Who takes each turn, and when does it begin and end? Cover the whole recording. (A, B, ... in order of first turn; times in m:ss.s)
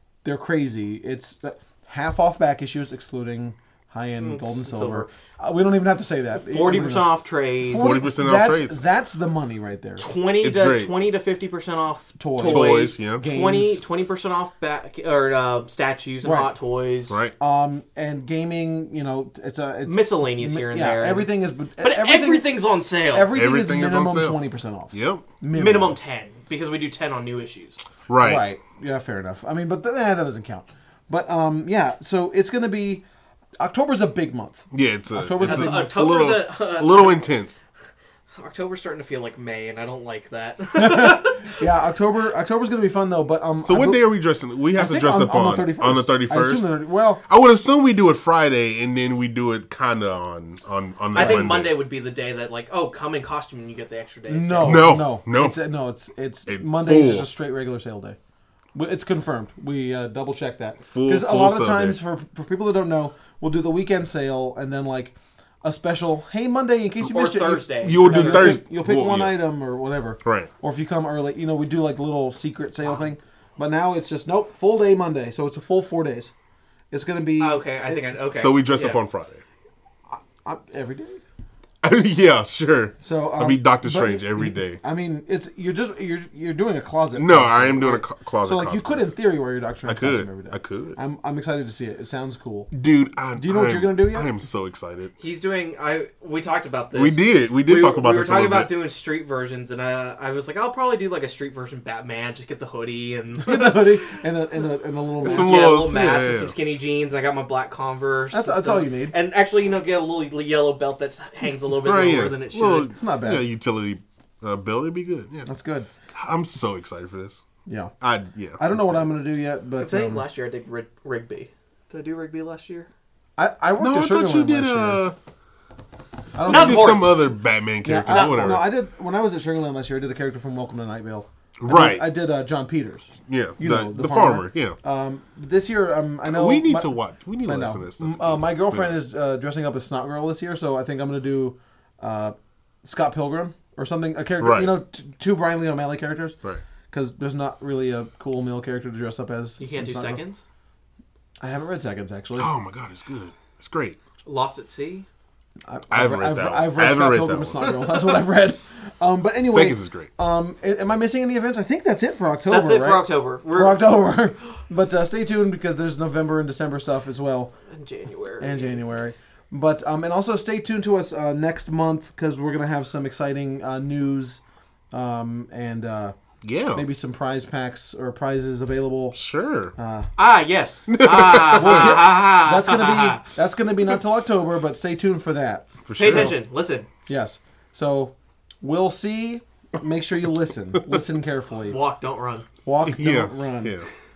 0:00.2-0:10.0 A
0:04.2-0:05.1 B
0:06.4-0:08.0 B
0:07.8-0:08.8 C
0:10.0-0:17.2 B
0:10.4-0:10.9 C
0:12.2-0:13.8 A
0:12.4-0:13.2 C
0:16.2-0:16.5 A
0:17.1-0:17.3 C
0:17.4-0:26.0 A
0:19.8-0:23.3 B
0:23.3-0:24.4 C
0:24.9-0:25.3 C
0:25.5-0:27.8 B
0:28.1-0:28.4 C
0:28.2-0:33.0 A
0:33.6-0:35.9 A
0:34.7-0:37.6 C
0:35.4-0:37.2 B
0:38.4-0:41.6 B
0:40.7-0:44.0 A
0:43.6-0:46.7 C
0:44.7-0:47.2 A
0:47.3-0:51.7 C
0:51.1-0:54.9 B
0:51.2-0:51.5 A
0:54.3-0:58.2 A
0:54.6-0:55.6 C
0:56.5-0:57.3 C
0:58.7-1:16.3 A
1:00.9-1:02.0 C
1:07.0-1:08.6 B
1:07.8-1:09.4 C
1:10.2-1:10.5 C
1:16.9-1:17.7 A
1:17.4-1:19.0 B
1:18.3-1:19.4 C
1:20.1-1:21.2 A
1:21.8-1:24.8 C
1:23.0-1:32.7 A
1:27.1-1:29.1 C
1:29.8-1:31.0 C
1:32.7-1:35.1 C
1:33.4-1:34.3 A
1:35.2-1:44.2 B
1:36.9-1:38.7 C
1:43.4-1:45.7 A
1:45.2-1:46.5 C
1:45.2-1:52.9 B
1:48.3-1:49.1 A
1:51.8-1:55.5 C
1:52.9-1:53.4 A
1:55.5-1:55.9 A
1:56.1-1:57.4 C
1:57.7-1:57.9 A
1:58.0-1:59.0 C
1:58.6-2:00.2 A
1:59.8-2:02.9 B
2:03.4-2:05.0 A
2:03.8-2:05.2 C
2:06.3-2:07.1 A
2:06.4-2:07.1 B
2:06.4-2:08.7 C
2:07.8-2:26.4 A
2:08.1-2:08.5 B
2:11.6-2:12.0 C
2:13.3-2:14.8 C
2:16.2-2:19.0 C
2:24.4-2:24.7 C
2:26.9-2:30.2 A
2:29.6-2:30.4 B
2:31.4-2:32.5 A
2:32.4-2:34.0 C
2:34.2-2:35.1 B
2:35.6-2:47.5 A
2:35.9-2:37.7 C
2:39.5-2:40.1 C
2:42.5-2:43.8 B
2:47.7-2:48.8 B
2:48.4-2:56.1 A
2:56.4-2:56.8 C
2:56.7-2:59.2 A
2:59.1-2:59.7 C
2:59.8-3:00.1 A
3:00.2-3:03.3 B
3:00.9-3:02.0 C
3:01.6-3:06.4 A
3:05.8-3:06.3 C
3:06.0-3:06.9 B
3:07.0-3:11.8 A
3:11.7-3:12.4 B
3:12.6-3:13.8 A
3:12.8-3:13.9 C